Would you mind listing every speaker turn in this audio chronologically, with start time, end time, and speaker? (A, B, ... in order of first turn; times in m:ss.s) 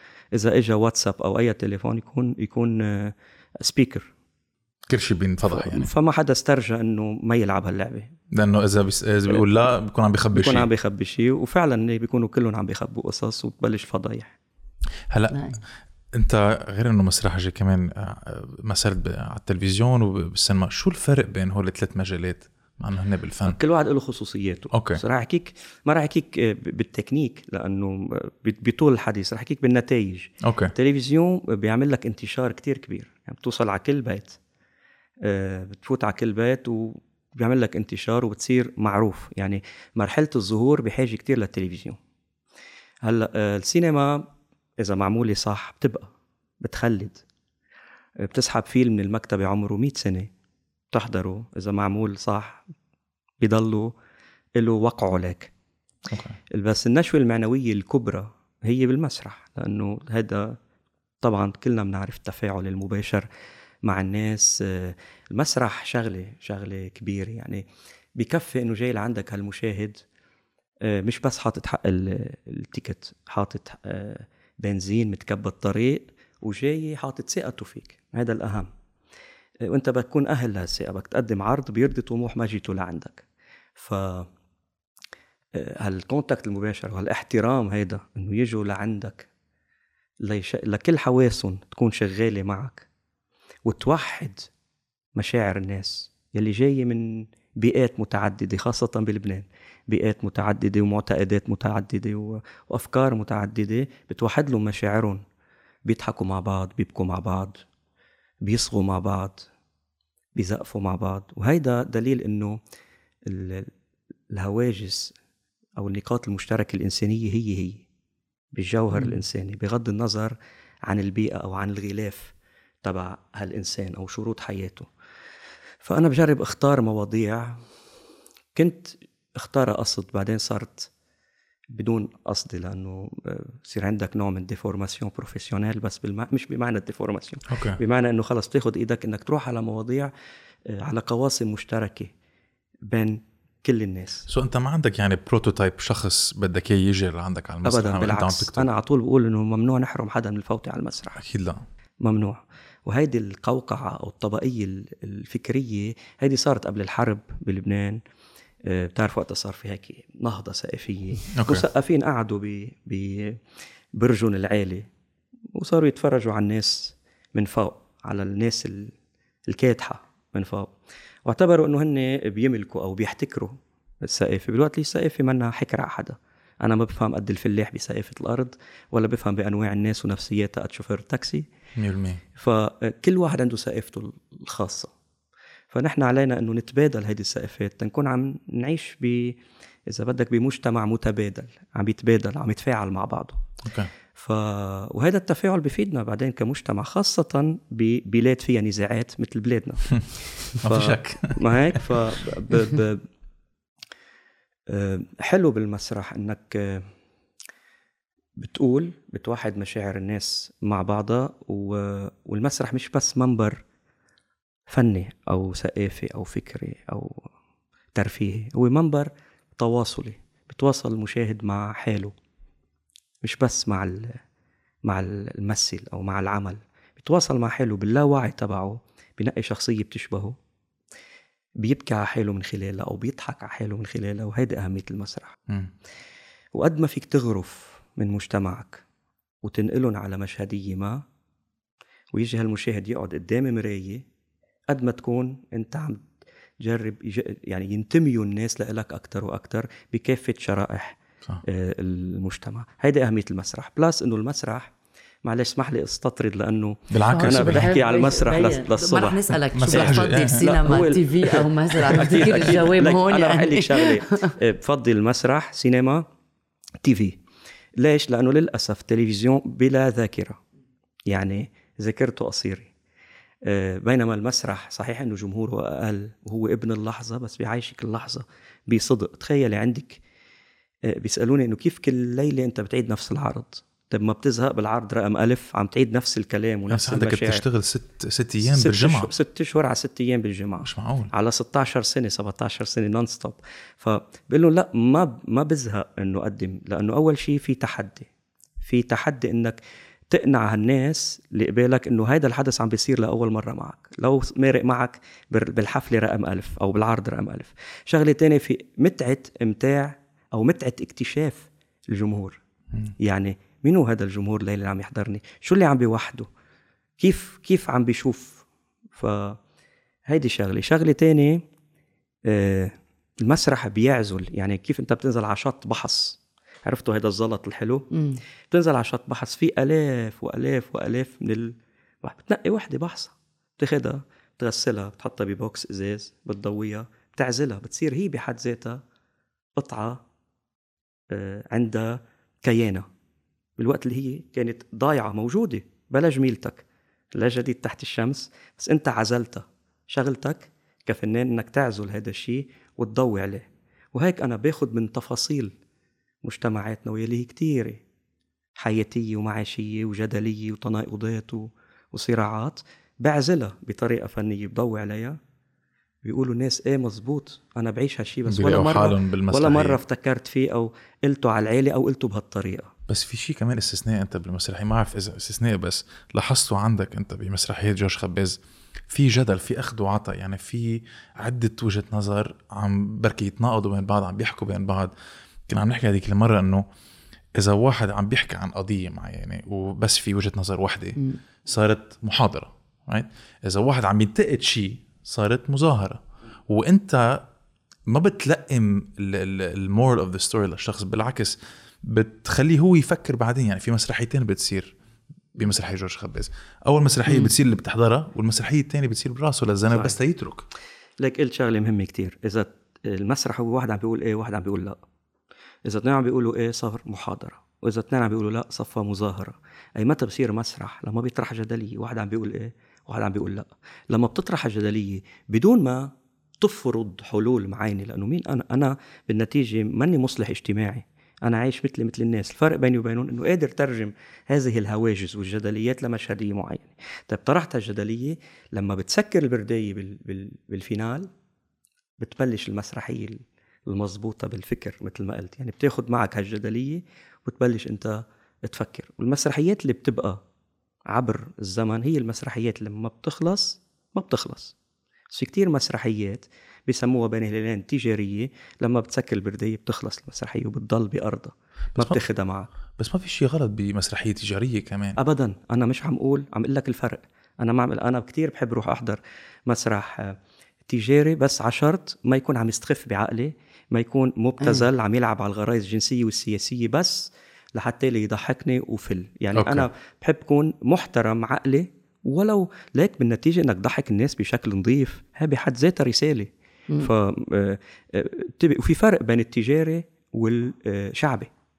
0:00.3-0:04.1 A
0:04.9-0:05.9 B
0:05.5-0:08.1 A
0:08.3-0:10.7 B
0:10.3-0:14.3 A
0:15.1-0:15.4 B
0:15.3-0:15.6 C
0:16.1-0:23.6 B
0:23.4-0:34.4 A
0:24.7-0:25.0 B
0:30.4-0:30.7 B
0:35.2-0:42.0 A
0:43.0-0:44.3 A
0:44.8-0:46.1 A
0:46.6-0:47.2 A
0:48.2-0:50.3 A
0:50.9-0:52.6 A
0:53.4-0:53.9 A
0:54.6-0:55.5 A
0:56.1-0:56.4 B
0:56.5-1:00.6 A
1:01.2-1:03.3 A
1:03.8-1:07.6 A
1:08.2-1:10.0 A
1:10.8-1:18.7 A
1:19.6-1:23.2 A
1:23.8-1:24.3 A
1:25.5-1:29.3 A
1:30.2-1:32.8 A
1:33.6-1:34.4 A
1:35.2-1:45.2 A
1:45.8-1:47.6 A
1:48.4-1:49.5 A
1:50.3-1:52.6 A
1:53.2-1:53.7 A
1:54.3-1:55.1 A
1:55.8-1:57.8 A
1:58.5-2:04.9 A
1:58.9-1:59.2 C
2:05.8-2:07.6 A
2:08.5-2:10.9 A
2:11.7-2:20.1 A
2:17.5-2:17.8 B
2:20.7-2:22.1 A
2:22.9-2:24.3 A
2:24.3-2:28.6 B
2:27.6-2:31.2 A
2:31.2-2:31.6 B
2:32.0-2:38.0 A
2:38.6-2:43.4 A
2:41.4-2:41.6 B
2:43.9-2:44.9 A
2:45.5-2:48.9 A
2:49.5-2:50.7 A
2:51.2-3:01.5 A
3:01.8-3:02.2 B
3:02.4-3:04.9 A
3:05.7-3:13.4 A
3:13.6-3:13.9 B
3:14.1-3:23.1 A
3:19.9-3:21.8 B
3:24.7-3:26.9 A
3:28.4-3:33.6 A
3:34.7-3:37.2 A
3:37.9-3:42.1 A
3:43.2-3:44.2 A
3:44.8-3:50.3 A
3:51.6-3:55.3 A
3:56.5-3:58.8 A
3:59.4-4:01.0 A
4:02.1-4:04.0 A
4:04.7-4:06.0 A
4:06.6-4:14.7 A
4:15.2-4:26.0 A
4:16.9-4:17.8 B
4:17.0-4:24.3 C
4:19.5-4:20.4 B
4:26.8-4:27.2 A
4:27.8-4:30.4 A
4:31.1-4:32.7 A
4:33.4-4:40.0 A
4:40.9-4:47.4 A
4:46.7-4:49.1 B
4:48.4-4:58.0 A
4:50.6-4:51.1 B
4:58.6-5:12.4 A
5:13.0-5:16.3 A
5:17.0-5:18.4 A
5:18.9-5:19.4 A
5:20.1-5:21.4 A
5:22.3-5:27.9 A
5:27.9-5:28.2 C
5:28.5-5:38.8 A
5:39.6-5:40.0 A
5:41.1-5:42.8 A
5:43.6-5:46.6 A
5:47.1-5:55.5 A
5:56.2-5:57.8 A
5:58.6-6:05.2 A
6:06.0-6:12.7 A
6:08.3-6:09.8 B
6:12.9-6:24.9 B
6:25.5-6:26.6 B
6:27.3-6:37.3 B
6:37.9-6:44.7 B
6:45.3-6:50.4 B
6:49.7-6:50.0 A
6:51.0-6:54.8 A
6:55.6-7:21.1 A
7:22.0-7:30.2 A
7:30.9-7:34.5 A
7:35.1-7:42.5 A
7:41.7-7:42.0 B
7:42.8-7:45.0 B
7:45.0-8:11.3 A
7:54.4-7:54.7 C
7:59.3-7:59.7 B